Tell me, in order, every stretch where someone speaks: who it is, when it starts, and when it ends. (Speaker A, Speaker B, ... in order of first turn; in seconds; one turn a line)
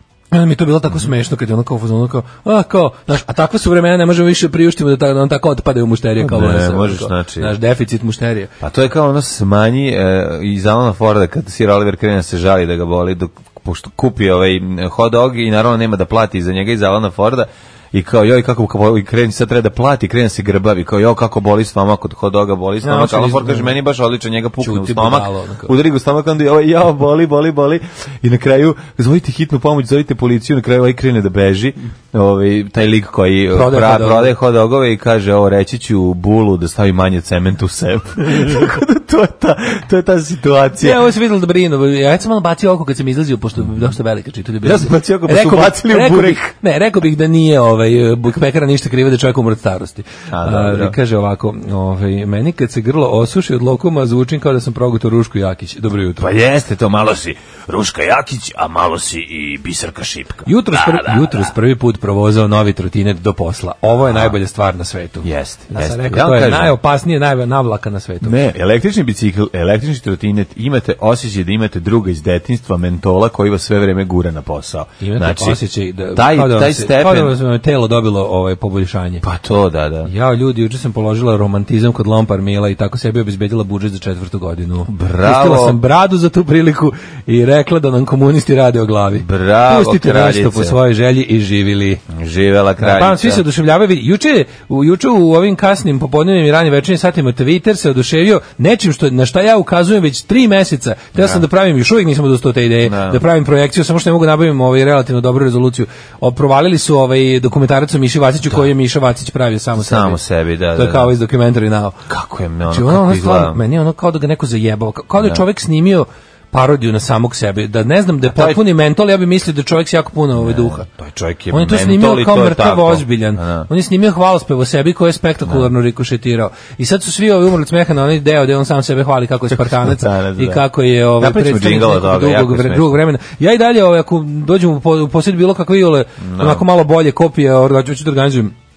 Speaker A: 0.3-8.5
Speaker B: 6.2-7.6
Speaker B: 8.6-41.0
Speaker A: 22.8-23.8
Speaker A: 24.6-25.7
Speaker A: 33.5-34.4
Speaker A: 40.8-56.3
Speaker B: 44.6-46.5
Speaker B: 50.3-51.0
Speaker B: 56.2-61.5
Speaker A: 60.5-68.4
Speaker B: 64.0-64.4
Speaker B: 65.2-66.7
Speaker B: 68.2-75.6
Speaker A: 75.0-79.2
Speaker B: 76.1-77.3
Speaker B: 79.2-80.1
Speaker A: 80.0-92.0
Speaker B: 84.9-85.8
Speaker B: 89.2-90.8
Speaker B: 92.1-93.4
Speaker A: 92.8-110.2
Speaker B: 101.2-101.5
Speaker B: 102.8-103.2
Speaker B: 109.8-111.1
Speaker A: 110.8-112.0
Speaker B: 112.1-113.6
Speaker A: 112.7-120.8
Speaker B: 115.2-115.4
Speaker B: 118.2-118.6
Speaker B: 120.3-123.7
Speaker A: 121.5-138.5
Speaker B: 129.5-133.0
Speaker B: 136.2-136.7